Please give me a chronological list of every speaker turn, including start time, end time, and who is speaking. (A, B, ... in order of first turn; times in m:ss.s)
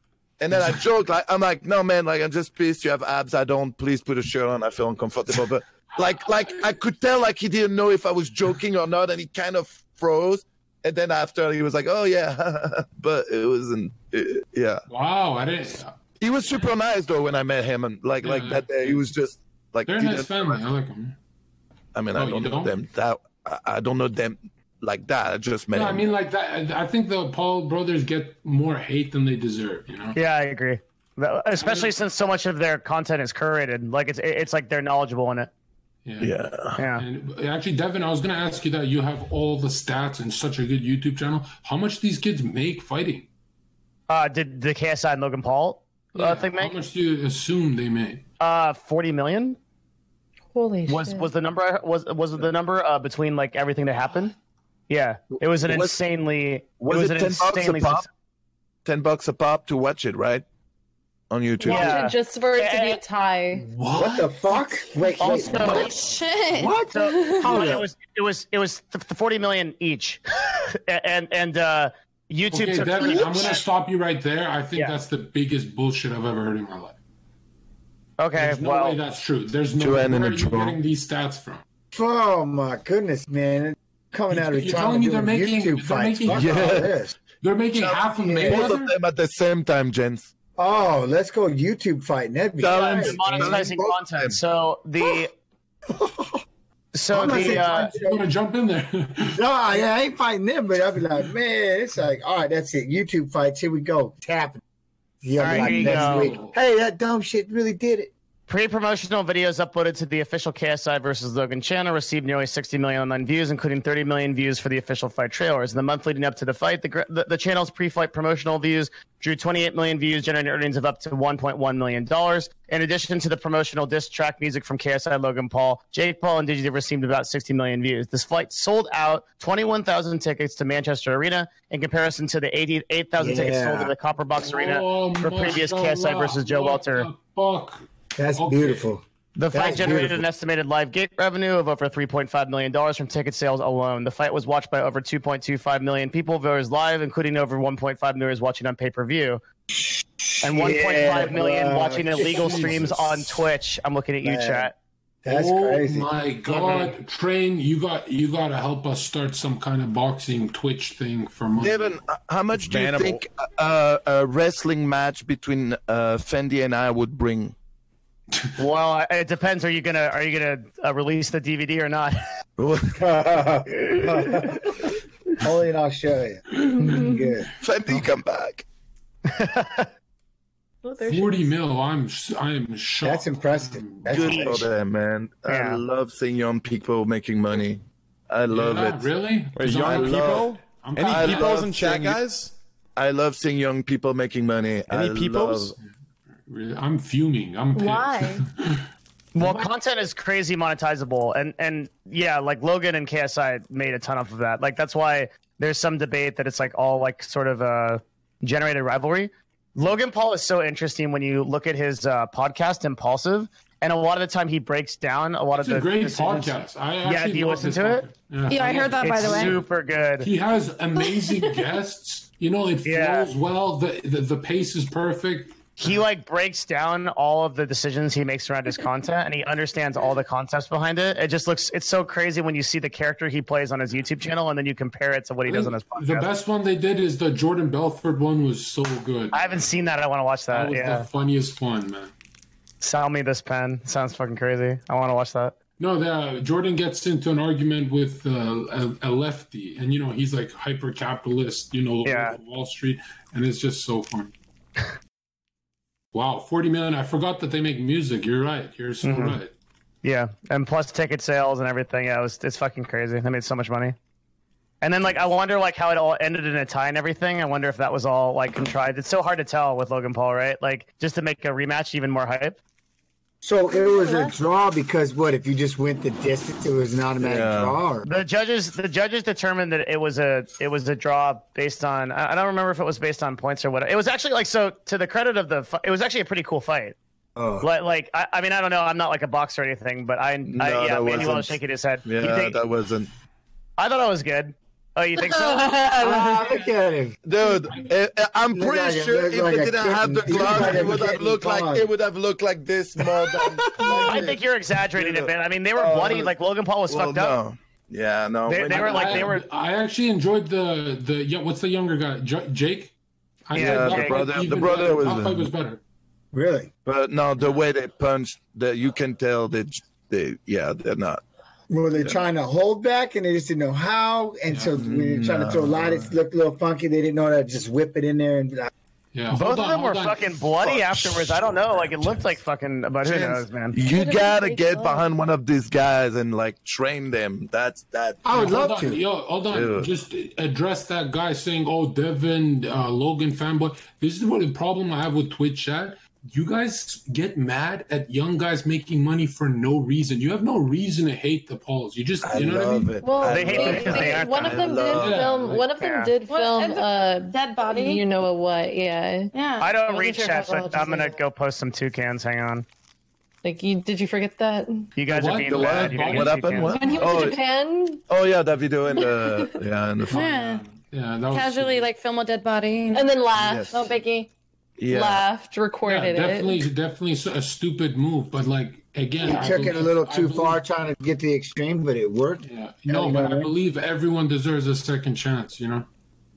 0:00.4-0:14.8 A
0:14.9-0:15.9 B
0:16.2-0:20.6 A
0:18.2-0:19.0 B
0:19.9-0:21.1 B
0:21.9-0:26.1 A
0:22.1-0:22.7 B
0:25.7-0:30.2 B
0:30.1-0:35.5 C
0:31.6-0:31.9 B
0:36.0-0:36.3 B
0:36.2-0:36.8 A
0:36.8-0:37.0 C
0:36.9-0:43.3 B
0:44.1-0:46.7 C
0:46.1-0:48.2 B
0:48.4-0:49.6 C
0:50.5-0:51.3 D
0:50.9-0:54.3 C
0:54.9-0:58.0 C
0:55.6-0:56.0 A
0:56.8-0:58.1 A
0:58.8-1:00.4 A
1:01.3-1:02.0 A
1:01.6-1:03.6 D
1:01.6-1:03.0 C
1:03.6-1:04.5 B
1:03.9-1:05.9 E
1:05.2-1:05.9 C
1:05.3-1:07.5 F
1:06.5-1:07.8 E
1:06.9-1:10.2 C
1:10.7-1:13.6 C
1:12.5-1:16.9 B
1:18.2-1:19.0 C
1:18.3-1:21.6 B
1:19.8-1:20.8 A
1:21.9-1:27.2 E
1:24.3-1:26.8 B
1:26.3-1:27.0 A
1:27.4-1:28.9 B
1:27.7-1:30.3 A
1:28.1-1:28.8 E
1:30.6-1:33.6 E
1:32.6-1:34.4 A
1:32.7-1:35.3 C
1:35.9-1:36.4 E
1:36.9-1:37.9 C
1:37.1-1:38.3 E
1:37.1-1:39.4 B
1:39.3-1:44.6 E
1:45.2-1:48.1 E
1:45.4-1:46.3 C
1:45.4-1:46.6 B
1:48.5-2:17.1 C
2:13.2-2:13.9 E
2:14.4-2:17.8 B
2:18.2-2:20.2 E
2:18.4-2:18.9 B
2:19.4-2:29.4 C
2:29.7-2:32.8 E
2:30.4-2:34.7 C
2:32.2-2:32.9 B
2:34.2-2:34.7 E
2:35.2-2:36.1 E
2:35.3-2:42.0 B
2:41.6-2:47.5 A
2:42.6-2:43.2 G
2:48.6-2:52.2 C
2:52.6-2:53.0 A
2:53.0-2:54.9 E
2:55.4-2:57.5 E
2:57.6-2:58.6 A
2:59.3-2:59.9 C
3:00.8-3:01.5 D
3:01.1-3:04.4 B
3:03.0-3:04.7 E
3:04.1-3:09.1 A
3:05.5-3:05.8 C
3:08.5-3:11.6 B
3:09.6-3:12.5 G
3:09.8-3:10.5 A
3:11.0-3:12.2 A
3:13.0-3:15.7 A
3:14.9-3:15.7 G
3:16.5-3:18.8 B
3:17.7-3:18.4 D
3:19.3-3:38.0 C
3:35.5-3:39.6 B
3:38.5-3:39.6 F
3:39.0-3:40.3 C
3:40.2-3:46.0 B
3:42.8-3:43.3 C
3:45.8-3:56.3 C
3:55.5-3:59.7 B
3:59.3-4:01.1 C
4:00.5-4:02.1 B
4:02.8-4:05.6 C
4:05.8-4:14.3 B
4:12.0-4:12.4 C
4:16.1-4:19.5 B
4:19.0-4:19.4 C
4:20.0-4:24.0 C
4:24.8-4:32.6 C
4:33.4-4:38.1 E
4:33.7-4:34.4 D
4:37.2-4:37.8 A
4:38.0-4:47.0 C
4:47.4-4:47.7 E
4:47.6-4:52.6 C
4:50.4-4:53.1 A
4:53.8-4:56.4 C
4:55.8-4:57.2 E
4:57.2-5:04.3 A
4:58.5-5:01.9 E
5:03.0-5:04.4 E
5:04.0-5:07.4 C
5:04.9-5:06.3 A
5:06.9-5:09.3 A
5:08.4-5:09.4 C
5:08.7-5:12.9 B
5:13.5-5:15.8 B
5:13.5-5:14.3 C
5:13.5-5:15.5 A
5:16.3-5:16.7 E
5:16.8-5:21.2 A
5:21.7-5:28.7 E
5:24.5-5:24.7 B
5:24.7-5:26.2 A
5:29.1-5:30.3 B
5:29.3-5:33.8 C
5:30.6-5:31.6 A
5:33.0-5:38.2 A
5:33.8-5:35.1 D
5:38.2-5:39.0 E
5:38.3-5:53.0 B
5:39.5-5:39.9 A
5:52.2-5:55.4 A
5:53.0-5:59.3 D
5:53.2-5:54.7 C
5:54.9-5:55.6 B
5:55.7-5:56.1 C
5:56.3-5:58.0 F
5:59.3-5:59.7 F
5:59.6-6:02.6 C
5:59.9-6:01.2 D
6:03.4-6:04.9 D
6:05.0-6:06.8 C
6:05.1-6:07.0 B
6:05.4-6:07.4 A
6:06.7-6:08.0 D
6:08.1-6:10.2 A
6:08.9-6:09.5 D
6:10.1-6:10.6 F
6:10.1-6:11.9 B
6:11.3-6:13.1 F
6:12.9-6:13.9 D
6:13.4-6:13.8 A
6:13.7-6:14.3 F
6:14.8-6:15.2 A
6:14.9-6:16.6 D
6:15.8-6:20.6 B
6:19.2-6:23.5 E
6:22.4-6:25.9 B